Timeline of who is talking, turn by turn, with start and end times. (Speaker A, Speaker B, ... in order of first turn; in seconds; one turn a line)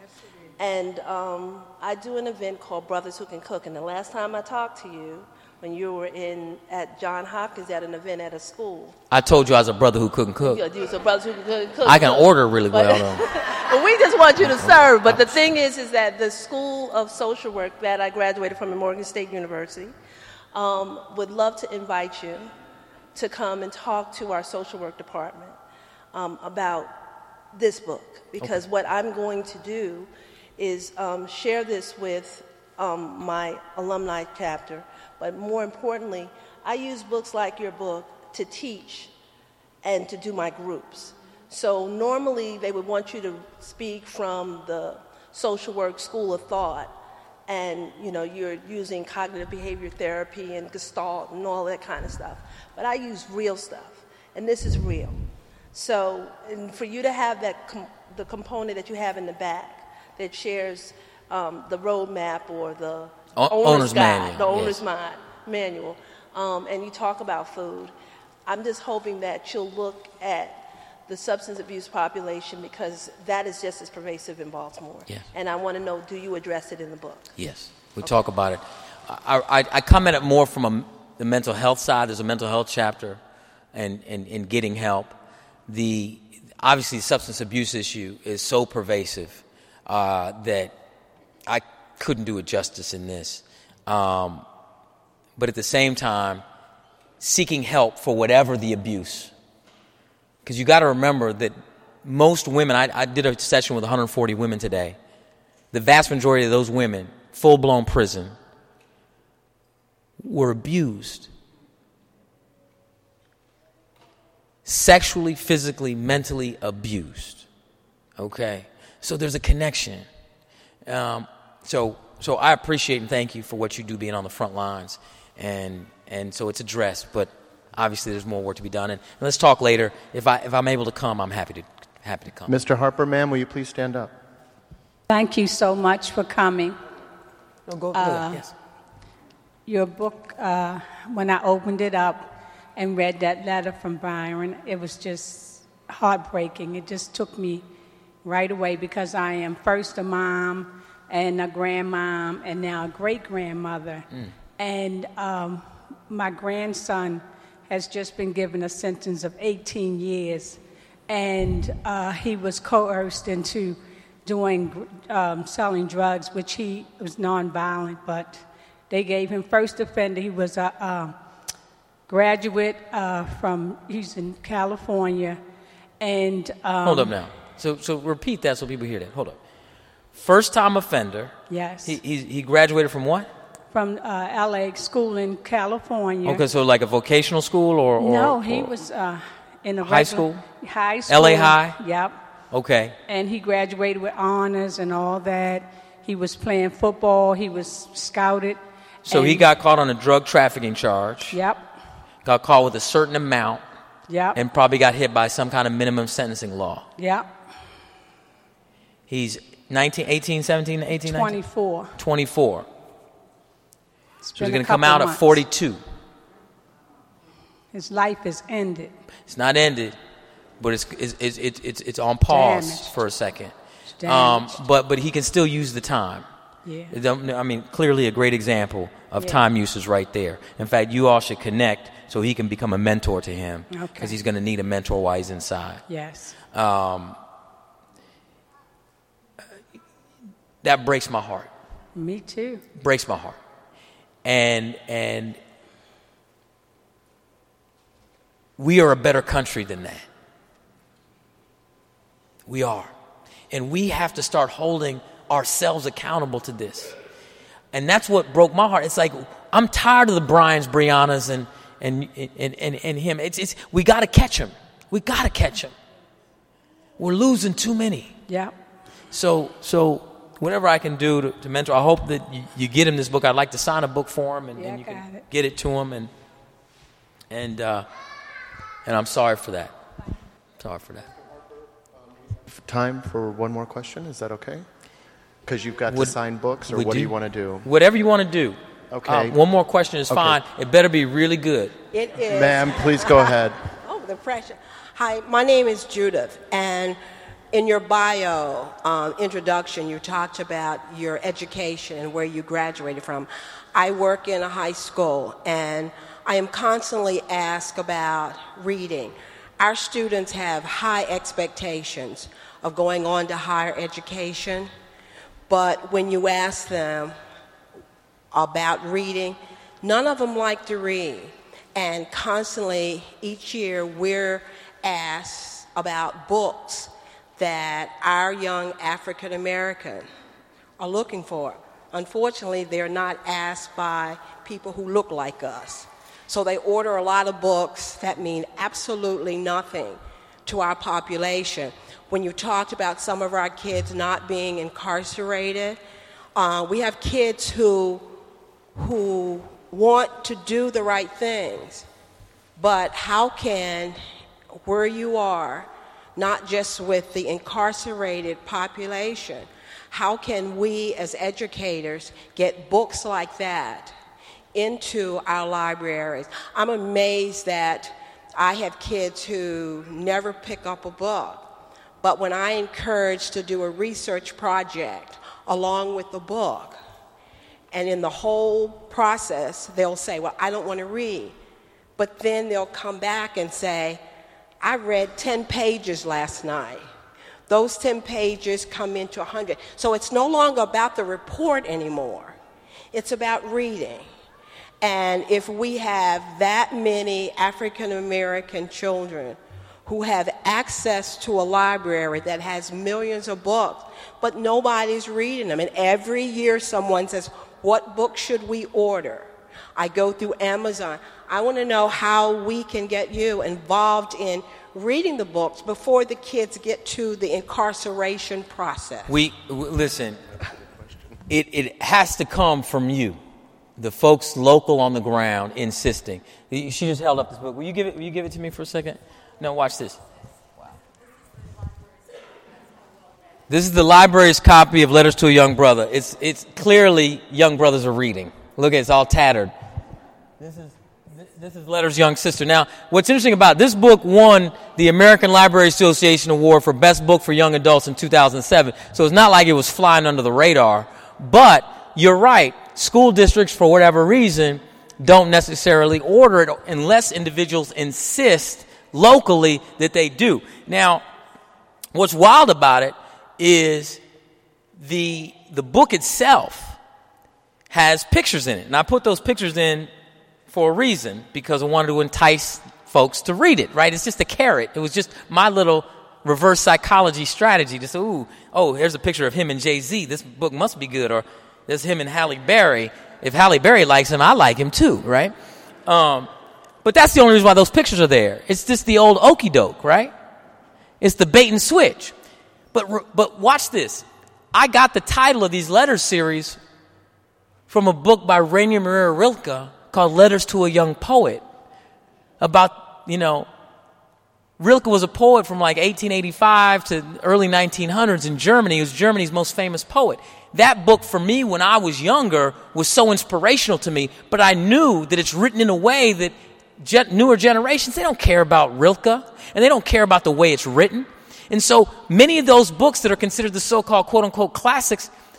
Speaker A: 0.6-8.9
Speaker B: 9.1-10.6
Speaker A: 10.4-19.9
Speaker B: 11.8-13.2
Speaker B: 14.4-15.2
Speaker A: 20.5-22.5
Speaker A: 23.1-25.6
Speaker A: 26.1-26.9
Speaker A: 27.5-39.1
Speaker A: 39.8-46.9
Speaker A: 47.5-55.2
Speaker A: 55.7-67.9
Speaker B: 63.4-64.8
Speaker A: 68.5-77.3
Speaker B: 77.3-83.2
Speaker B: 83.7-85.1
Speaker B: 85.7-90.7
Speaker B: 91.5-94.4
Speaker B: 95.3-96.4
Speaker B: 97.2-99.3
Speaker B: 100.4-105.0
Speaker B: 105.7-108.3
Speaker B: 110.2-111.3
Speaker B: 114.6-117.5
Speaker B: 118.2-120.1
Speaker B: 120.8-132.5
Speaker C: 132.5-134.1
Speaker D: 135.1-136.8
Speaker B: 137.7-138.5
Speaker D: 137.9-138.4
Speaker D: 139.7-147.6
Speaker D: 148.2-171.1
Speaker D: 172.1-175.4
Speaker D: 176.0-177.2
Speaker B: 176.8-179.4
Speaker B: 180.1-183.3
Speaker D: 181.5-182.0
Speaker D: 183.7-186.4
Speaker B: 186.2-188.8
Speaker D: 188.0-192.2
Speaker B: 189.8-190.4
Speaker B: 191.1-191.8
Speaker B: 192.5-193.0
Speaker D: 193.1-199.5
Speaker B: 199.1-201.4
Speaker D: 201.3-201.6
Speaker B: 202.2-203.6
Speaker D: 204.1-204.4
Speaker B: 204.3-206.9
Speaker D: 207.0-207.3
Speaker B: 209.1-211.4
Speaker D: 210.9-211.9
Speaker B: 211.9-212.7
Speaker D: 214.2-215.4
Speaker B: 214.4-215.8
Speaker D: 217.7-218.9
Speaker B: 219.3-220.0
Speaker B: 220.6-223.5
Speaker D: 222.3-222.9
Speaker D: 224.0-224.6
Speaker B: 224.0-226.2
Speaker D: 226.6-226.9
Speaker B: 226.9-235.8
Speaker D: 233.7-234.2
Speaker D: 235.9-236.4
Speaker B: 236.5-237.2
Speaker B: 240.6-241.5
Speaker D: 241.9-242.6
Speaker B: 242.7-243.4
Speaker B: 244.2-245.4
Speaker B: 248.6-250.1
Speaker B: 252.5-252.9
Speaker B: 253.5-256.9
Speaker B: 257.7-265.7
Speaker B: 267.0-268.1
Speaker D: 268.3-268.5
Speaker B: 269.1-276.1
Speaker D: 274.6-275.2
Speaker B: 277.3-277.9
Speaker B: 278.8-279.7
Speaker B: 280.6-281.1
Speaker C: 282.5-284.6
Speaker C: 285.4-287.6
Speaker B: 285.9-286.1
Speaker B: 286.7-291.7
Speaker C: 288.9-289.4
Speaker C: 290.1-290.4
Speaker E: 291.9-297.0
Speaker C: 292.3-293.6
Speaker E: 297.5-314.7
Speaker E: 315.5-317.1
Speaker E: 318.3-330.0
Speaker E: 330.8-345.8
Speaker E: 346.3-348.1
Speaker E: 348.8-351.8
Speaker E: 352.6-354.0
Speaker E: 354.6-363.9
Speaker E: 364.5-371.4
Speaker E: 372.0-376.8
Speaker E: 377.7-381.3
Speaker E: 382.0-384.0
Speaker E: 384.6-386.8
Speaker E: 387.5-392.4
Speaker E: 392.9-394.1
Speaker E: 394.8-419.1
Speaker B: 419.1-420.2
Speaker B: 421.3-423.2
Speaker B: 423.8-430.0
Speaker B: 433.5-439.5
Speaker B: 440.4-461.0
Speaker B: 461.9-464.0
Speaker B: 464.8-466.8
Speaker B: 467.7-469.9
Speaker B: 470.5-485.3
Speaker B: 485.9-486.3
Speaker B: 486.8-490.1
Speaker B: 491.0-492.1
Speaker B: 492.7-496.6
Speaker B: 497.7-501.4
Speaker B: 502.4-503.5
Speaker B: 504.6-525.1